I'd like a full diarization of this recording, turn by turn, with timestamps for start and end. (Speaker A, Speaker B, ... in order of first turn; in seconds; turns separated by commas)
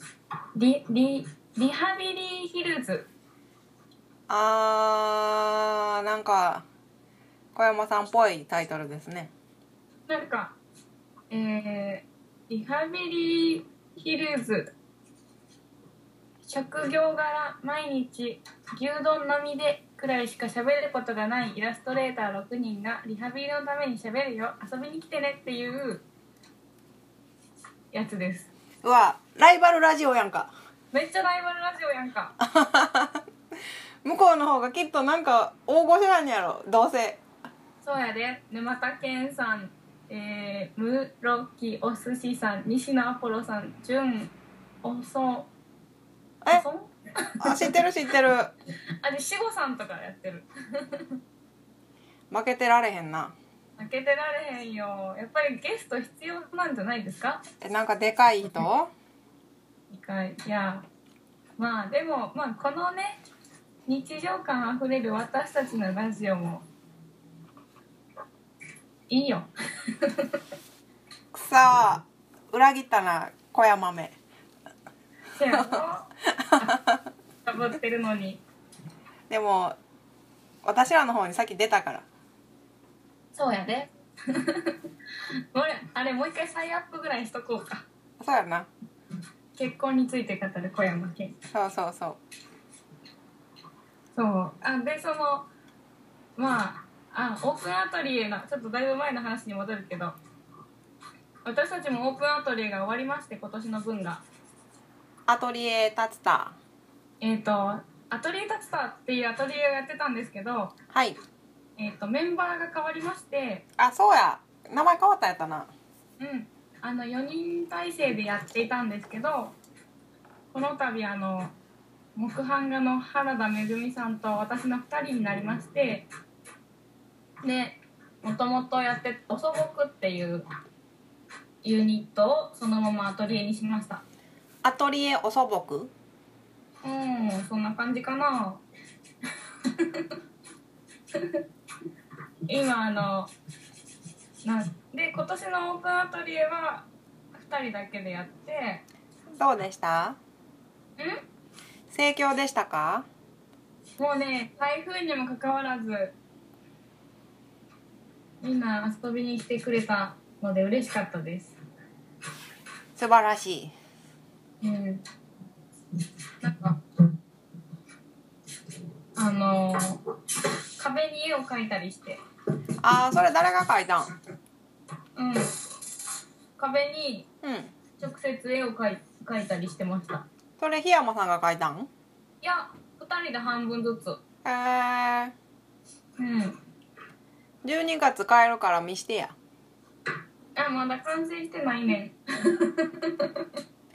Speaker A: 0.6-3.1, Speaker B: 4.3-6.7, Speaker B: 7.5-9.3, Speaker A: 10.1-10.6, Speaker A: 11.3-14.7, Speaker A: 16.4-26.0, Speaker A: 27.9-28.5, Speaker B: 28.8-30.5, Speaker A: 30.9-32.4, Speaker B: 32.4-33.2, Speaker B: 34.0-37.2, Speaker A: 37.8-45.5, Speaker A: 46.5-47.8, Speaker B: 47.4-48.5, Speaker A: 49.0-51.2, Speaker B: 52.3-53.4, Speaker A: 53.8-57.4, Speaker B: 57.6-58.9, Speaker A: 59.9-60.9, Speaker A: 61.6-63.2, Speaker A: 63.9-66.7, Speaker A: 69.1-70.4, Speaker B: 71.3-74.1, Speaker A: 75.3-76.8, Speaker A: 77.4-78.4, Speaker B: 79.3-79.8, Speaker B: 80.6-82.0, Speaker A: 83.3-84.8, Speaker A: 85.5-87.9, Speaker B: 88.2-88.7, Speaker A: 89.5-91.3, Speaker B: 91.5-92.2, Speaker A: 94.1-95.5, Speaker A: 96.3-100.2, Speaker A: 101.4-104.2, Speaker B: 105.3-106.6, Speaker A: 107.2-110.7, Speaker B: 110.9-111.2, Speaker A: 111.8-113.6, Speaker B: 113.8-115.7, Speaker A: 116.2-119.5, Speaker A: 120.5-121.5, Speaker A: 122.2-126.1, Speaker A: 127.4-130.4, Speaker A: 131.6-134.0, Speaker B: 134.6-135.9, Speaker A: 136.8-138.6, Speaker A: 139.6-140.2, Speaker A: 141.1-141.4, Speaker A: 142.5-143.3, Speaker A: 144.4-148.8, Speaker B: 149.3-150.2, Speaker A: 151.0-151.2, Speaker B: 151.9-153.1, Speaker A: 154.0-156.1, Speaker A: 158.4-161.6, Speaker B: 163.0-163.7, Speaker A: 164.6-165.0, Speaker A: 166.4-166.8, Speaker A: 169.2-170.0, Speaker A: 170.8-172.2, Speaker B: 172.8-174.1, Speaker A: 175.2-175.5, Speaker A: 176.6-177.3, Speaker B: 177.4-177.7, Speaker A: 178.0-180.2, Speaker B: 180.6-181.9, Speaker A: 182.4-184.2, Speaker B: 184.4-185.3, Speaker A: 186.2-186.6, Speaker B: 187.6-189.3, Speaker A: 190.6-193.5